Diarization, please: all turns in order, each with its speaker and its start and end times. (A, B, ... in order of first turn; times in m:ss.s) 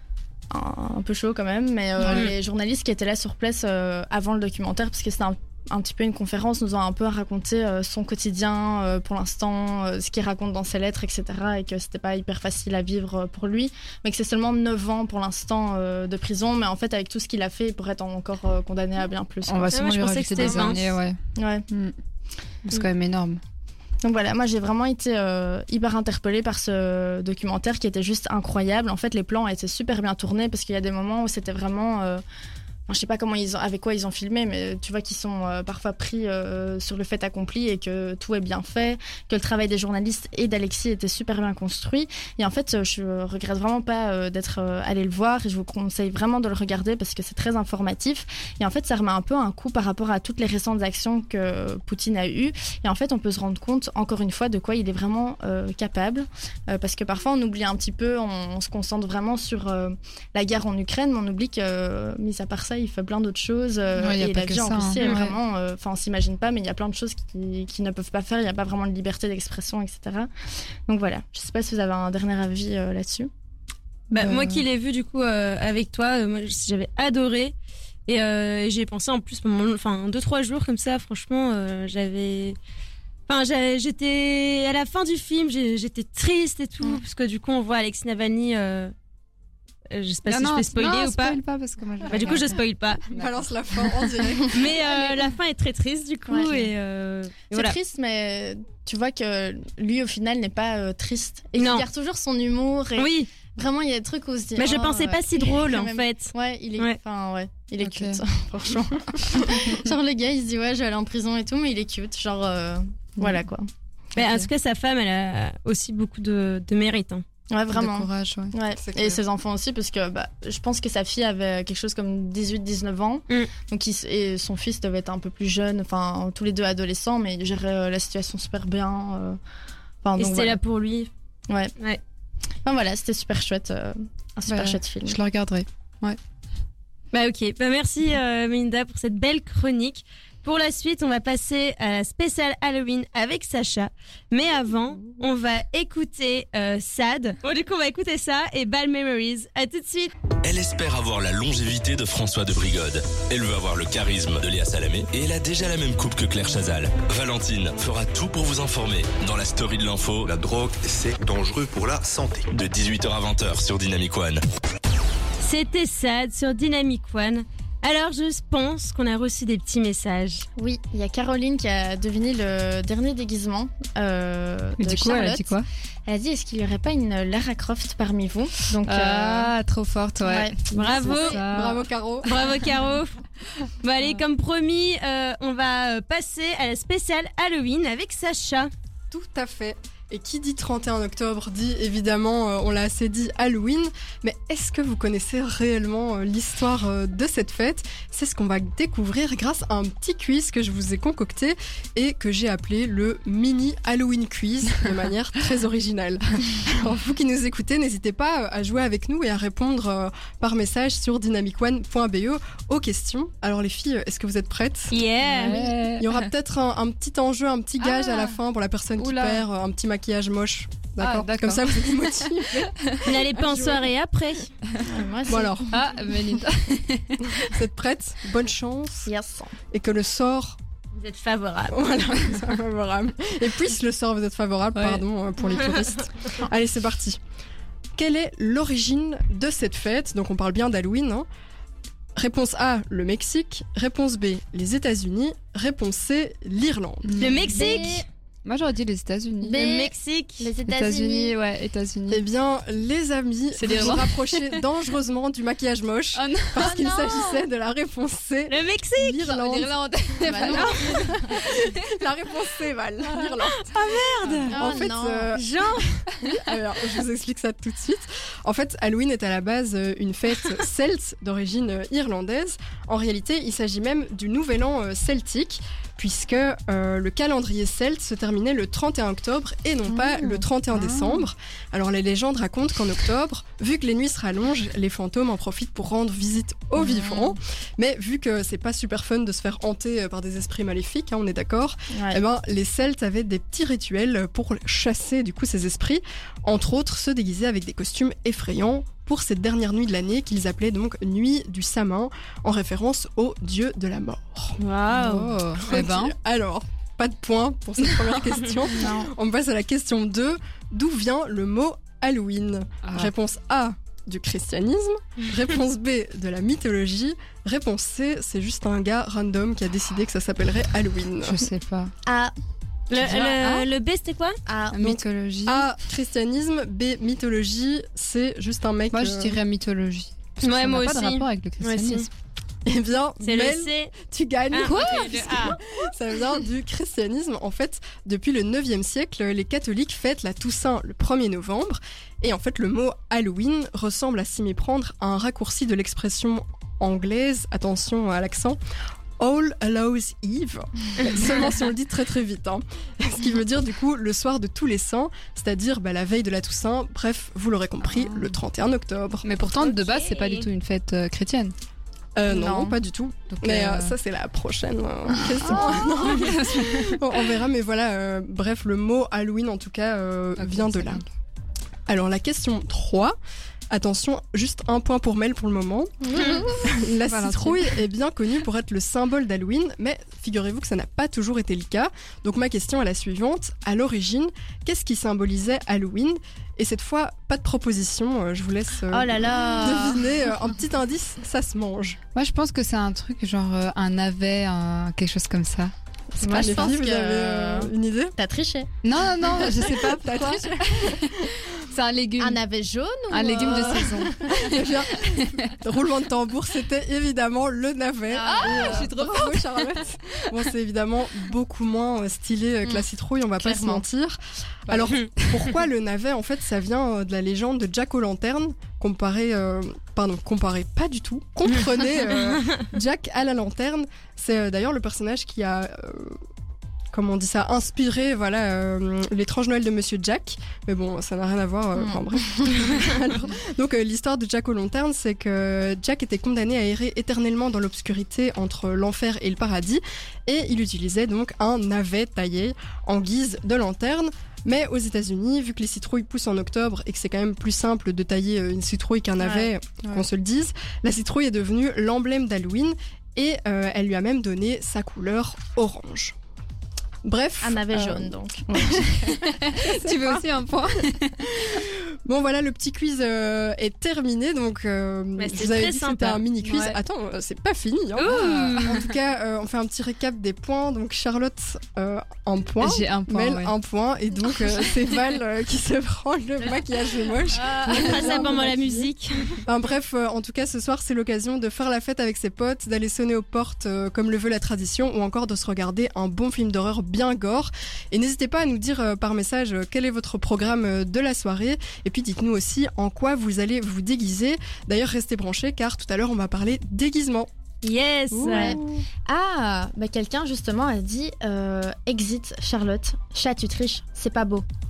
0:00.5-0:19.8 A
0:02.1-0:02.3 B
0:19.5-0:22.0 C
0:19.7-0:20.8 B
0:20.4-0:20.7 A
0:21.4-0:21.6 A
0:22.6-0:23.4 C
0:24.0-0:32.2 A
0:32.9-1:10.3 A
1:04.0-1:05.4 C
1:10.9-1:13.3 A
1:14.1-1:17.6 B
1:14.1-1:14.6 C
1:18.1-1:22.6 B
1:23.3-1:28.9 B
1:29.9-1:31.4 B
1:30.3-1:32.6 C
1:32.1-1:33.0 B
1:33.1-1:34.7 D
1:34.5-1:37.8 B
1:36.3-1:36.7 A
1:37.5-1:53.7 A
1:41.6-1:41.9 B
1:43.0-1:43.3 B
1:44.6-1:47.0 B
1:47.8-1:48.2 C
1:54.2-1:57.2 B
1:54.2-1:54.5 C
1:57.5-2:09.4 A
1:57.7-1:58.6 C
1:58.8-1:59.2 D
2:10.0-2:10.6 A
2:10.2-2:11.1 B
2:11.5-2:11.7 A
2:12.6-2:15.2 A
2:14.5-2:16.2 C
2:17.1-2:30.1 B
2:30.4-2:40.3 E
2:40.2-2:42.5 F
2:42.5-2:44.4 E
2:45.4-2:50.5 B
2:50.6-2:55.5 A
2:54.8-2:55.7 C
2:56.1-2:59.5 A
2:58.8-3:01.9 C
3:00.2-3:01.3 A
3:00.7-3:01.4 B
3:01.4-3:02.3 D
3:02.2-3:03.2 B
3:03.8-3:08.7 B
3:09.1-3:34.9 D
3:34.9-3:35.7 B
3:35.2-3:36.3 C
3:36.0-3:43.9 D
3:37.8-3:38.4 C
3:39.0-3:39.4 C
3:41.0-3:43.1 C
3:43.0-3:44.5 B
3:44.8-3:45.7 A
3:45.3-3:45.7 D
3:45.7-3:47.4 C
3:47.3-3:49.1 D
3:49.1-3:49.6 A
3:49.7-3:50.6 D
3:51.0-3:51.9 B
3:51.7-3:57.2 D
3:54.8-3:55.0 C
3:58.0-4:01.3 D
4:02.2-4:07.3 D
4:07.0-4:07.9 C
4:07.2-4:08.0 B
4:07.5-4:08.1 A
4:08.4-4:09.8 C
4:09.4-4:11.3 A
4:09.5-4:10.5 B
4:10.6-4:12.2 C
4:12.1-4:19.8 D
4:13.6-4:14.6 C
4:16.2-4:17.3 C
4:16.6-4:17.3 A
4:18.5-4:19.3 B
4:19.2-4:21.9 C
4:20.2-4:21.2 A
4:20.3-4:23.7 D
4:20.5-4:20.9 B
4:23.4-4:24.6 B
4:24.2-4:24.5 C
4:24.5-4:25.4 D
4:24.5-4:25.3 A
4:25.3-4:25.9 B
4:26.2-5:04.6 D
4:39.9-4:41.3 C
4:46.8-4:47.3 A
4:51.9-4:52.2 A
5:04.6-5:05.3 B
5:04.9-5:06.2 C
5:05.6-5:21.4 D
5:07.8-5:08.2 C
5:08.7-5:09.1 A
5:12.8-5:13.1 C
5:21.2-5:21.9 C
5:22.1-5:22.3 A
5:22.9-5:24.4 B
5:23.0-5:23.7 C
5:24.5-5:25.0 A
5:24.7-5:25.7 C
5:25.5-5:29.4 D
5:28.9-5:32.1 C
5:30.4-5:32.1 B
5:32.6-5:48.6 D
5:33.2-5:33.9 B
5:34.5-5:35.6 B
5:34.6-5:35.6 C
5:49.2-5:59.3 D
5:57.8-5:58.4 C
5:59.2-6:01.6 C
5:59.5-6:00.5 B
6:02.2-6:11.0 D
6:02.3-6:02.8 A
6:03.3-6:03.9 C
6:05.2-6:07.1 C
6:05.5-6:05.7 A
6:10.4-6:11.1 C
6:11.9-6:13.2 D
6:13.7-6:32.0 D
6:16.0-6:16.8 A
6:17.0-6:17.8 C
6:28.9-6:30.1 A
6:32.2-6:36.8 C
6:36.2-6:38.7 A
6:36.3-6:38.2 D
6:38.8-6:42.4 C
6:39.4-6:41.4 D
6:42.2-6:44.6 A
6:43.1-6:45.6 C
6:43.4-7:06.2 D
6:48.1-6:48.9 A
6:48.2-6:50.4 C
6:53.4-6:53.8 A
6:54.7-6:55.4 C
7:06.9-7:36.2 D
7:11.8-7:13.0 A
7:29.2-7:29.5 A
7:37.0-7:38.8 D
7:37.4-7:39.5 A
7:38.6-7:41.6 C
7:39.6-7:40.2 D
7:41.3-7:58.9 D
7:45.2-7:46.2 B
7:46.4-7:46.8 C
7:48.0-7:48.8 B
7:48.0-7:48.9 C
7:52.6-7:53.5 C
7:57.4-7:58.2 C
7:57.7-7:59.3 B
7:59.4-8:17.3 D
8:17.6-8:18.6 B
8:18.1-8:18.8 D
8:18.2-8:18.6 C
8:18.3-8:24.5 A